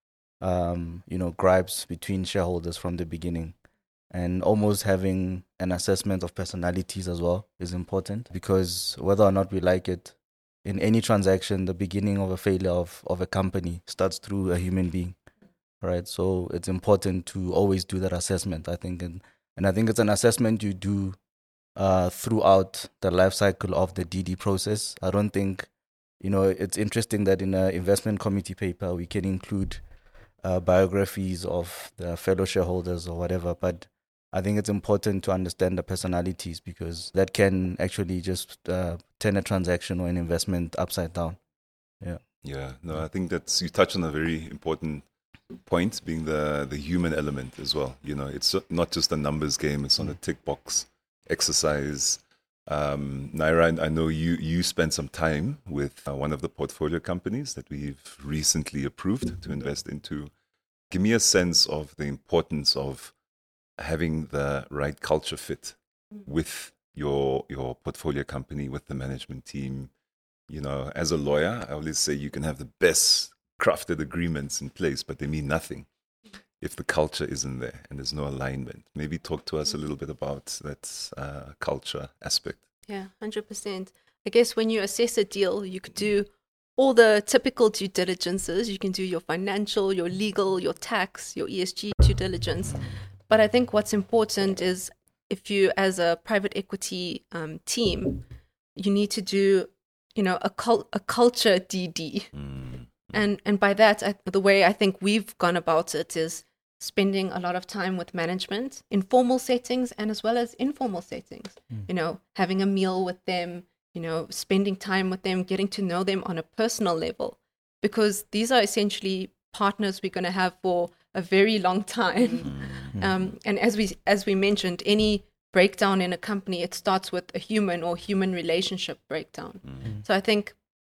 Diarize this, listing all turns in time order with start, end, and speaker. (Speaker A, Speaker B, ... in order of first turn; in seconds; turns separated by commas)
Speaker A: 0.4-3.5, Speaker A: 4.1-15.2, Speaker A: 15.8-21.2, Speaker A: 21.8-25.7, Speaker A: 26.2-29.8, Speaker A: 30.4-41.4, Speaker B: 42.4-45.1, Speaker B: 45.6-60.3, Speaker B: 60.9-63.1, Speaker B: 63.8-69.9, Speaker B: 70.5-75.9, Speaker B: 76.6-82.6, Speaker C: 82.9-98.2, Speaker C: 98.8-102.4, Speaker B: 102.3-103.2, Speaker C: 103.1-130.6, Speaker B: 122.4-122.9